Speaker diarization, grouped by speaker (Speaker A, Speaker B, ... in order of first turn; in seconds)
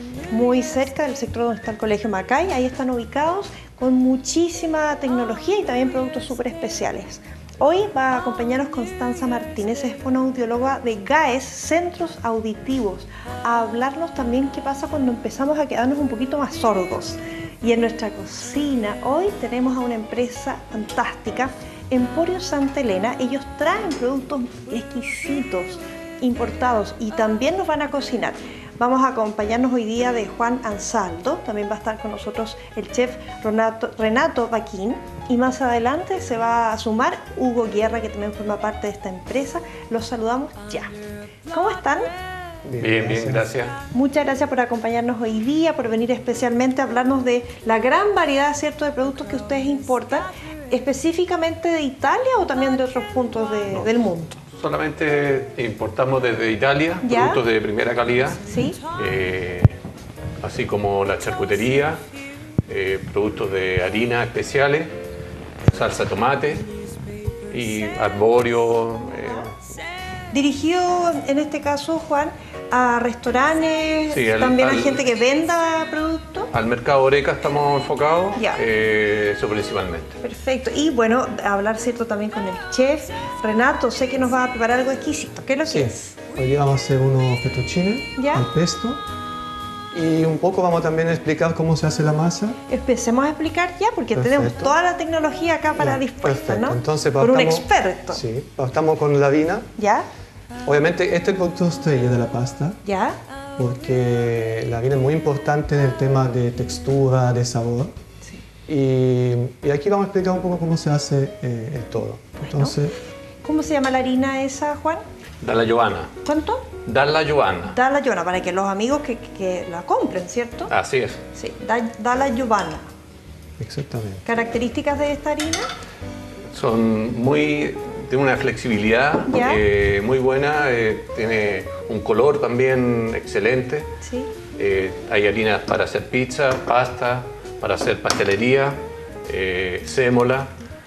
Speaker A: 0.3-40.9, 41.5-42.1, 43.9-54.4, 57.0-57.4, 58.5-58.8, 70.3-76.5, 78.4-78.6, 80.2-86.2, 88.2-88.5, 92.7-98.2, 99.8-100.1, 102.8-103.2, 112.5-112.8, 113.4-115.0, 116.3-116.7, 117.7-120.7, 121.4-122.9, 124.3-125.7, 129.3-129.6, 134.0-134.3
Speaker B: 42.6-43.5, 85.7-89.0, 89.9-92.6, 94.1-94.8, 95.8-99.7, 100.7-102.8, 103.6-108.0, 108.7-113.0, 123.6-124.2
Speaker C: 42.8-43.8, 54.6-58.4, 59.0-59.8, 60.4-62.0, 62.7-65.0, 65.7-66.7, 67.5-69.5, 74.1-75.1, 76.5-80.2, 115.4-116.1, 116.8-117.8, 120.7-121.2, 126.5-133.9, 134.6-140.5